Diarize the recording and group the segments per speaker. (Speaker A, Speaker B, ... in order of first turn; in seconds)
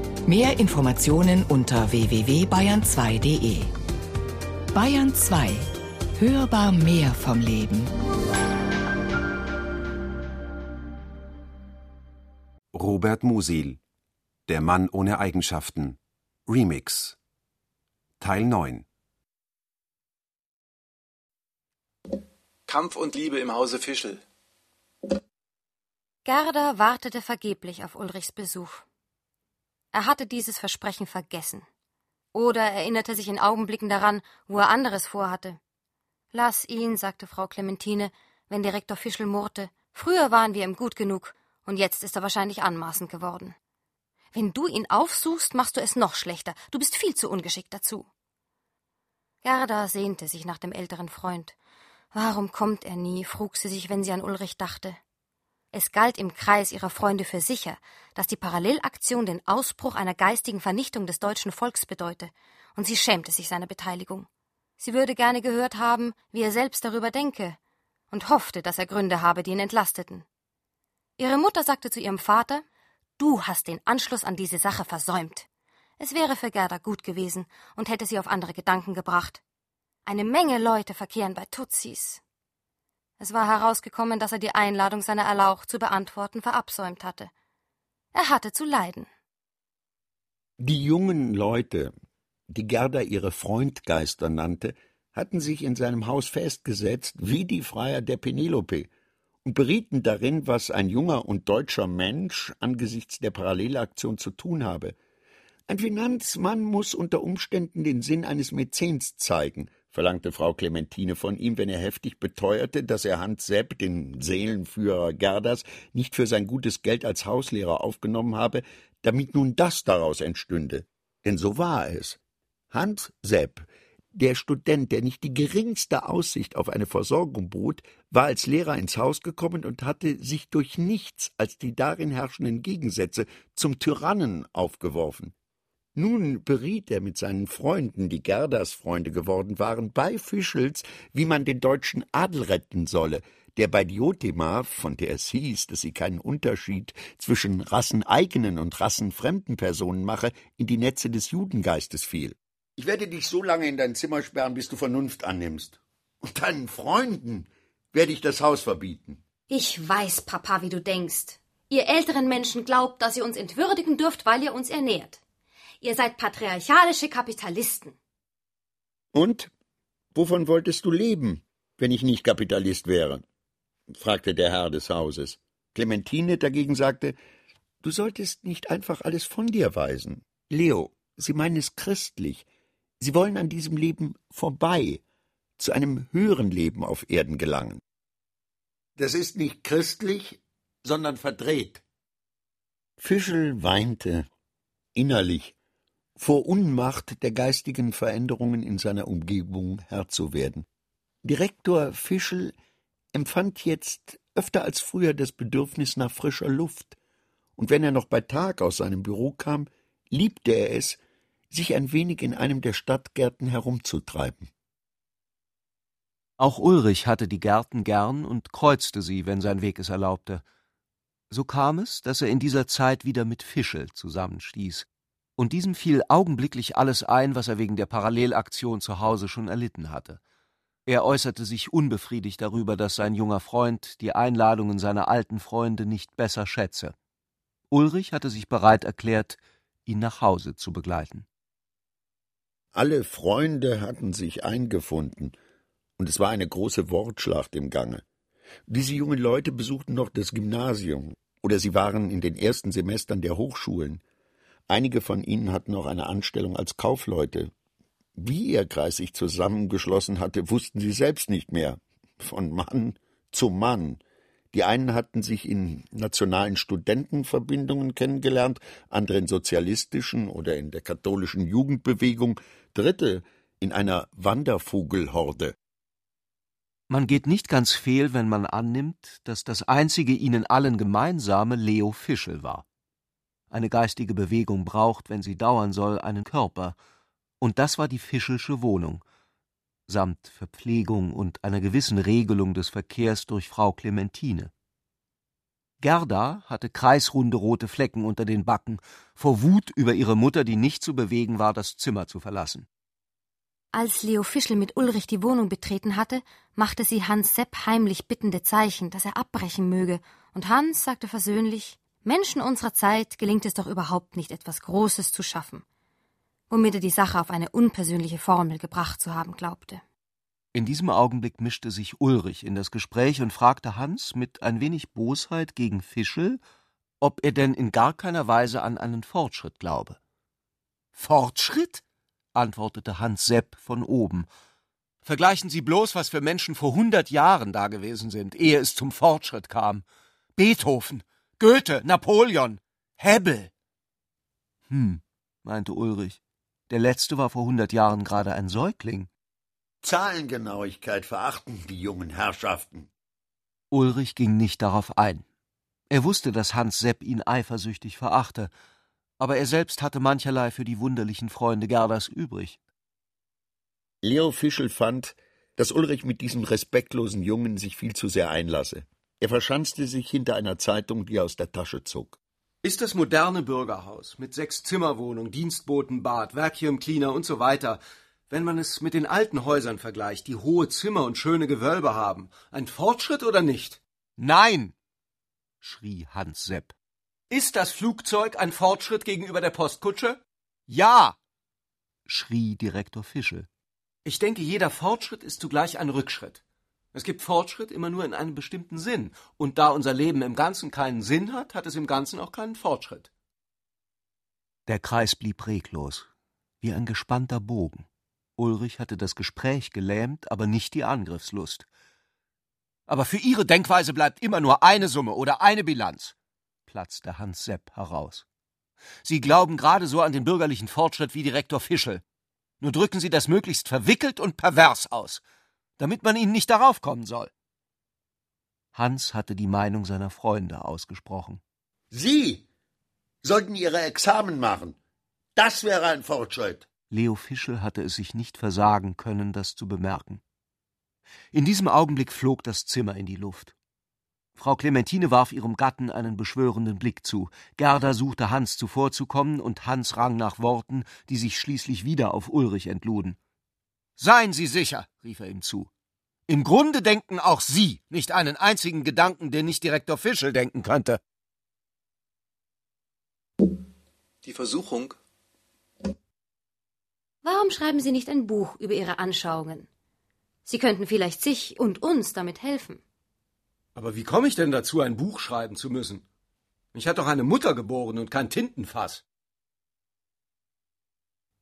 Speaker A: 0.2-3.7, 4.7-7.9
Speaker B: 12.7-13.8, 14.5-17.2, 18.2-18.9
Speaker C: 22.7-24.2, 464.2-465.0
Speaker D: 26.2-28.9, 29.9-31.7, 32.3-35.6, 36.3-43.6, 44.3-48.1, 49.4-51.5, 52.1-55.0, 55.7-64.3, 64.8-67.6, 68.1-70.2, 71.2-72.6, 73.2-75.5, 76.0-79.4, 80.1-82.2, 83.2-87.3, 88.1-89.1, 159.5-165.2, 165.8-168.0, 303.7-315.6, 316.5-319.8, 467.2-469.7, 470.5-472.8
Speaker E: 90.6-91.9, 92.5-98.9, 99.4-105.0, 105.7-122.2, 122.7-135.3, 136.0-159.2, 169.1-169.5, 170.2-173.2, 173.9-177.2, 177.8-182.5, 183.0-185.0, 185.6-187.8, 189.0-191.8, 193.0-194.3, 194.9-195.6, 196.2-200.7, 201.2-202.6, 203.1-207.0, 207.6-211.0, 211.5-214.5, 242.7-245.4, 246.0-248.0, 248.7-254.0, 254.7-257.5, 258.2-264.0, 264.5-275.6, 349.8-352.9, 364.0-372.2, 431.9-432.4, 433.2-434.8, 435.4-436.7
Speaker F: 216.4-220.4, 221.3-224.9, 225.4-230.2, 230.9-236.9, 237.7-241.3, 276.9-282.6, 283.5-286.8, 287.4-289.0, 289.9-294.5, 295.8-302.7, 320.5-326.4, 327.0-330.0, 330.9-331.8, 332.4-334.3, 335.0-339.9, 340.4-343.5, 344.7-349.1, 353.7-355.2, 355.9-358.5, 359.2-362.6, 372.6-384.8, 385.6-386.8, 387.3-391.2, 392.1-393.5, 394.1-396.4, 396.9-403.1, 404.7-406.1, 406.6-407.9, 408.4-411.7, 412.9-416.1, 416.7-418.2, 419.0-422.0, 422.6-425.2, 425.8-427.3, 428.8-431.4, 436.9-440.2, 441.3-443.6, 444.4-453.2, 454.0-455.7, 456.3-461.0, 473.8-476.0, 476.7-479.0